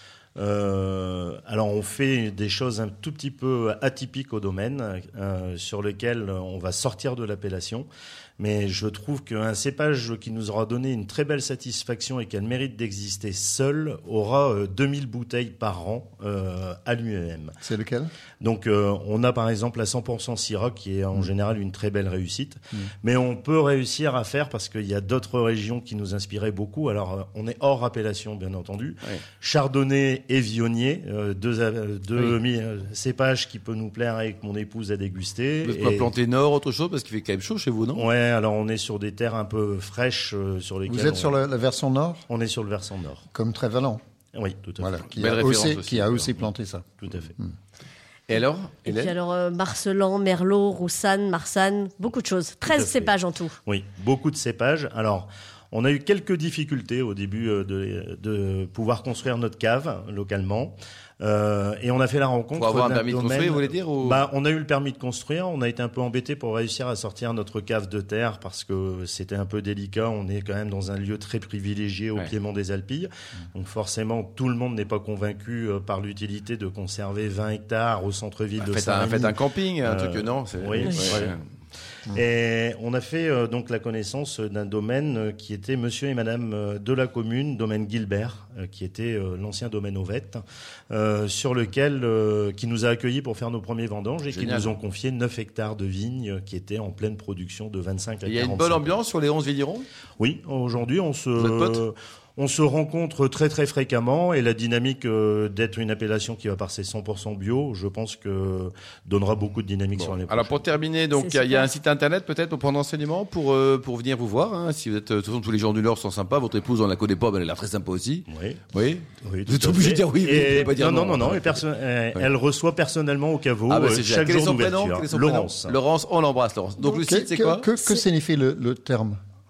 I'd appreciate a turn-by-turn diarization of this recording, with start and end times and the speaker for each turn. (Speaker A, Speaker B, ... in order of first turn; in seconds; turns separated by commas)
Speaker A: 0.3-7.9, Speaker A: 8.4-17.5, Speaker B: 17.6-18.1, Speaker A: 18.4-36.1, Speaker C: 35.6-38.0, Speaker A: 37.9-41.4, Speaker B: 40.9-42.2, Speaker A: 42.3-43.2, Speaker B: 43.3-44.0, Speaker A: 44.3-45.0, Speaker B: 44.8-47.5, Speaker C: 45.1-46.4, Speaker A: 47.0-47.3, Speaker C: 48.3-49.1, Speaker D: 48.9-53.5, Speaker A: 52.7-81.3, Speaker C: 62.5-64.2, Speaker C: 78.6-81.4, Speaker A: 82.1-99.0, Speaker C: 94.3-94.8, Speaker C: 98.2-99.8, Speaker A: 100.2-110.6, Speaker C: 101.4-101.8, Speaker C: 109.9-121.6, Speaker D: 111.2-111.7, Speaker A: 118.3-118.6, Speaker A: 119.2-125.8, Speaker C: 123.7-127.7, Speaker B: 127.0-129.2